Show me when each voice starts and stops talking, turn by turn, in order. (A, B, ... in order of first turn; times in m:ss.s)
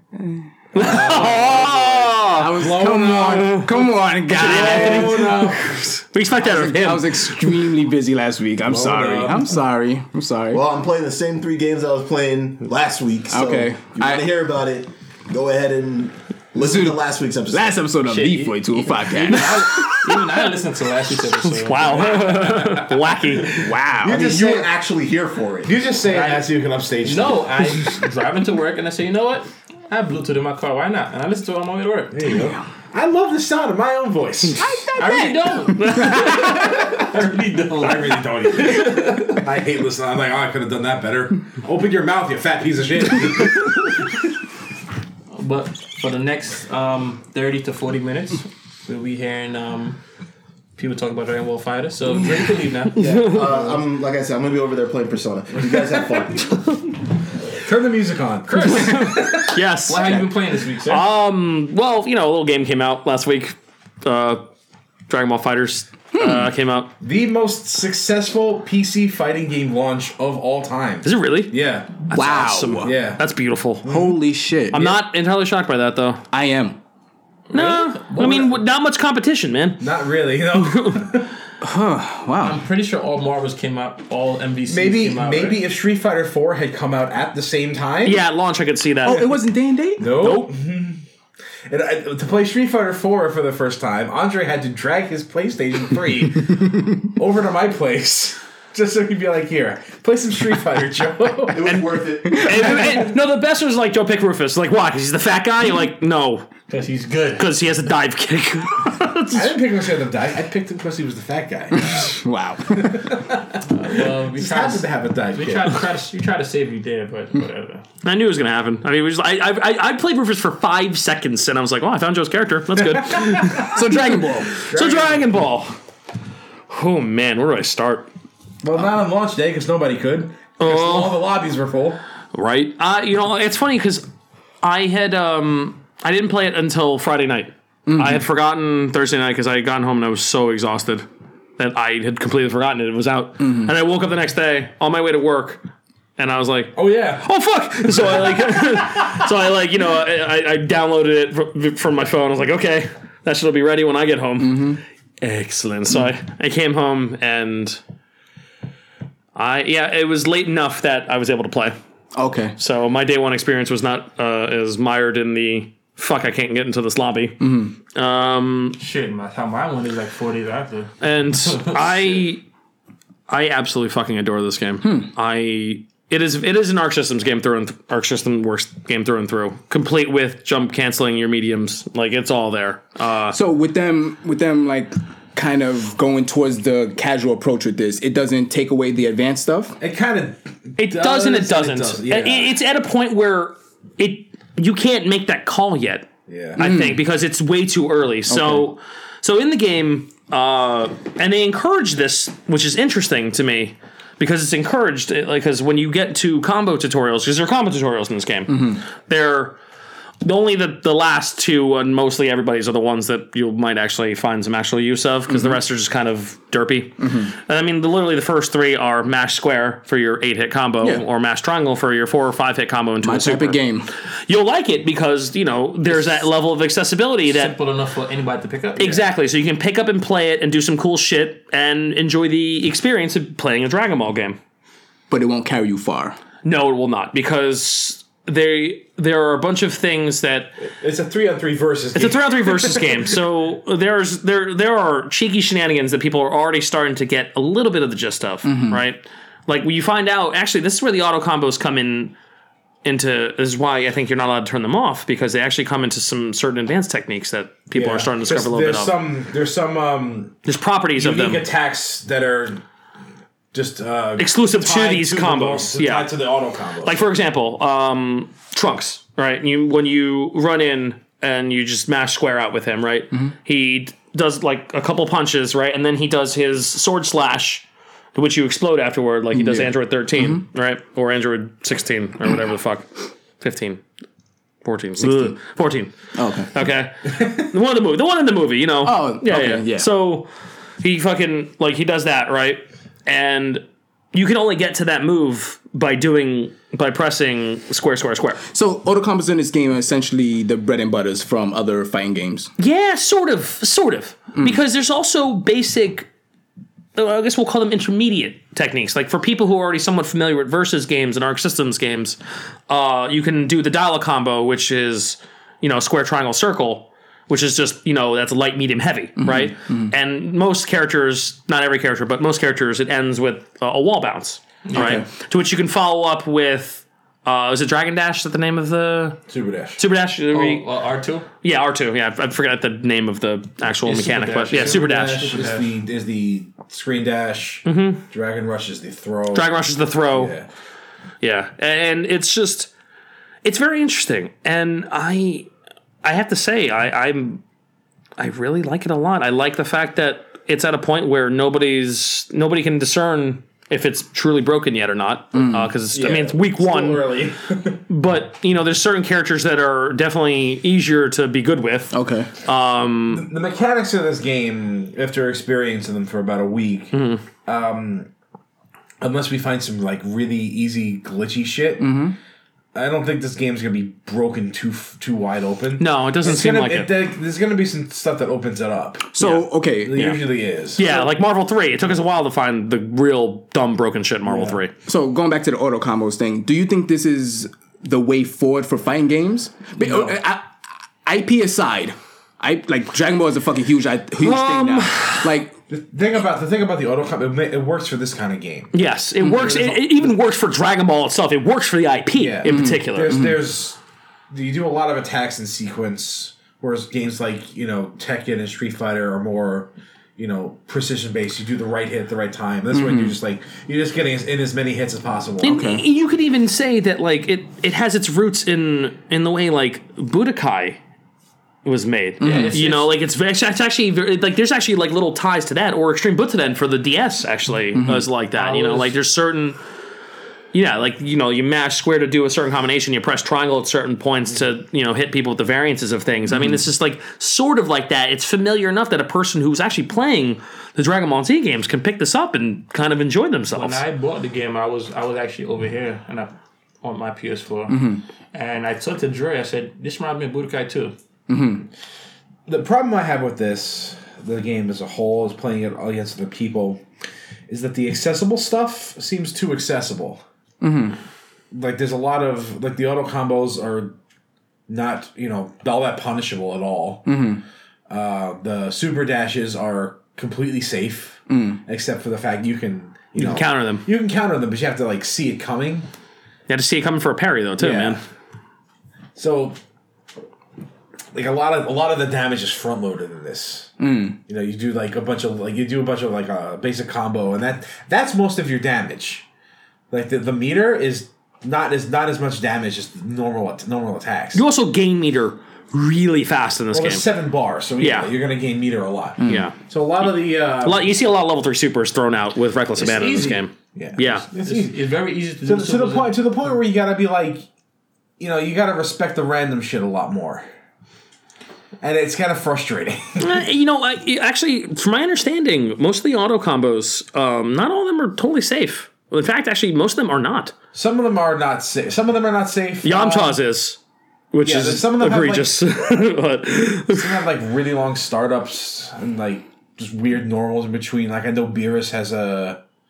0:00.2-0:01.7 A
0:00.7-0:02.6 B
0:00.8-0:03.8 C
0:02.4-0:05.4 A
0:03.2-0:03.7 B
0:04.3-0:07.6 B
0:04.4-0:06.0 C
0:06.4-0:10.6 A
0:08.7-0:09.5 C
0:10.5-0:17.9 D
0:13.3-0:14.3 A
0:16.6-0:20.1 A
0:18.0-0:23.0 E
0:21.4-0:23.7 B
0:23.6-0:24.5 A
0:24.0-0:25.8 D
0:24.2-0:24.7 C
0:25.6-0:27.5 C
0:26.0-0:26.5 E
0:27.0-0:32.3 E
0:32.1-0:34.8 C
0:34.6-0:36.3 A
0:35.0-0:39.4 E
0:35.8-0:36.1 B
0:36.3-0:37.0 C
0:37.7-0:44.1 C
0:45.3-0:50.0 E
0:50.8-0:53.1 E
0:53.0-0:56.7 D
0:53.0-0:53.4 B
0:57.6-0:59.6 C
0:58.5-0:59.4 E
0:58.6-1:00.1 B
0:59.9-1:01.1 E
1:00.9-1:04.4 B
1:05.1-1:06.9 B
1:06.2-1:06.5 A
1:07.0-1:12.1 C
1:11.0-1:13.9 B
1:12.1-1:13.0 A
1:12.8-1:13.2 C
1:13.8-1:14.1 C
1:13.8-1:15.0 A
1:14.7-1:16.2 B
1:16.3-1:16.8 A
1:17.5-1:18.6 E
1:17.5-1:19.8 B
1:19.8-1:21.3 C
1:20.5-1:21.1 B
1:21.6-1:22.6 A
1:22.4-1:25.6 E
1:24.7-1:28.2 C
1:28.0-1:29.4 B
1:29.0-1:30.2 A
1:30.0-1:31.0 C
1:30.2-1:30.5 B
1:31.7-1:41.9 C
1:41.5-1:43.0 D
1:41.7-1:46.5 B
1:46.7-1:47.5 E
1:47.4-1:49.6 B
1:49.3-1:52.2 C
1:51.7-1:53.1 A
1:52.7-1:53.7 C
1:53.7-1:57.8 E
1:54.2-1:55.8 C
1:58.0-2:05.8 B
2:03.5-2:04.6 A
2:04.6-2:05.3 C
2:06.7-2:08.1 B
2:08.6-2:12.0 C
2:10.6-2:11.2 B
2:12.3-2:14.1 B
2:14.6-2:21.1 B
2:17.9-2:18.2 A
2:21.6-2:25.6 B
2:23.4-2:23.7 A
2:26.2-2:37.8 B
2:26.8-2:27.3 C
2:27.9-2:28.8 C
2:34.4-2:34.8 A
2:39.4-2:41.8 B
2:42.1-2:42.6 A
2:42.6-2:48.8 B
2:47.4-2:47.7 A
2:48.8-2:52.1 E
2:51.0-2:52.4 B
2:53.3-3:03.4 B
2:54.8-2:55.1 A
3:03.3-3:09.8 A
3:09.8-3:12.6 C
3:10.8-3:29.6 B
3:16.3-3:16.6 C
3:16.6-3:17.0 A
3:18.3-3:18.7 A
3:28.5-3:28.8 A
3:30.2-3:43.6 B
3:35.3-3:35.6 A
3:37.0-3:37.3 A
3:43.0-3:43.9 A
3:44.3-3:47.6 B
3:47.3-3:49.0 E
3:48.8-3:54.4 B
3:55.1-3:56.2 A
3:56.4-4:00.6 B
4:00.6-4:03.1 C
4:02.0-4:12.1 B
4:08.4-4:08.8 A
4:12.8-4:19.0 B
4:17.7-4:20.4 C
4:20.5-4:21.5 B
4:21.0-4:22.6 C
4:23.5-4:27.0 C
4:24.2-4:26.1 B
4:26.8-4:43.8 B
4:39.3-4:40.4 A
4:44.6-4:45.9 B
4:45.0-4:45.4 A
4:46.1-4:46.5 A
4:46.5-4:50.3 B
4:48.8-4:49.9 A
4:50.8-4:58.4 B
4:58.5-5:02.5 A
5:02.6-5:06.1 B
5:07.0-5:29.2 B
5:19.2-5:19.9 A
5:24.7-5:25.0 E
5:24.7-5:25.1 A
5:29.3-5:29.8 C
5:29.8-5:30.7 B
5:30.3-5:31.3 E
5:31.4-5:35.3 B
5:33.8-5:35.7 E
5:34.5-5:39.6 C
5:37.6-5:38.0 B
5:39.3-5:40.4 B
5:40.1-5:40.5 C
5:41.2-5:42.7 B
5:43.4-5:45.5 B
5:46.0-5:47.4 B
5:48.2-5:57.2 B
5:55.3-5:55.7 A
5:55.9-5:57.8 C
5:57.9-6:03.3 B
6:01.9-6:02.3 A
6:03.1-6:08.1 C
6:06.9-6:07.2 B
6:09.0-6:12.0 C
6:11.8-6:12.2 A
6:12.7-6:19.2 C
6:15.8-6:16.9 B
6:19.2-6:20.1 A
6:19.2-6:20.2 B
6:19.8-6:21.1 C
6:20.8-6:24.7 B
6:24.3-6:24.6 C
6:24.9-6:30.5 A
6:29.8-6:30.1 C
6:31.0-6:35.6 A
6:34.2-6:35.3 B
6:35.7-6:38.8 C
6:38.7-6:43.2 B
6:39.4-6:40.1 C
6:42.2-6:43.8 C
6:42.4-6:43.4 A
6:44.3-6:55.6 C
6:52.7-6:53.2 A
6:55.4-7:00.8 B
6:55.4-6:55.8 A
7:01.6-7:09.6 B
7:02.2-7:02.6 A
7:02.2-7:03.0 E
7:07.7-7:08.1 A
7:08.4-7:09.0 E
7:10.5-7:23.8 B
7:23.5-7:27.8 E
7:27.7-7:28.0 A
7:28.3-7:31.0 E
7:31.3-7:31.7 A
7:32.5-7:36.8 C
7:37.5-7:40.2 C
7:40.6-7:41.0 A
7:41.5-7:44.0 C
7:44.7-7:47.1 C
7:47.1-7:47.4 A
7:47.9-7:55.9 C
7:51.3-7:51.6 A
7:53.2-7:53.9 B
7:56.5-7:58.0 B
7:57.6-7:58.0 C
7:59.2-7:59.6 C
8:01.1-8:09.3 C
8:03.8-8:04.2 A
8:09.9-8:14.4 C
8:14.3-8:17.1 B
8:16.7-8:20.9 C
8:17.8-8:18.1 B
8:19.2-8:19.5 A
8:19.3-8:20.1 B
8:20.6-8:24.3 B
8:22.8-8:24.8 C
8:24.4-8:26.2 E
8:25.4-8:27.5 C
8:28.2-8:30.5 C
8:31.8-8:33.4 C
8:33.2-8:40.6 B
8:40.7-8:43.4 C
8:42.8-8:43.8 B
8:44.3-8:47.2 B
8:44.4-8:46.1 C
8:46.9-8:52.6 C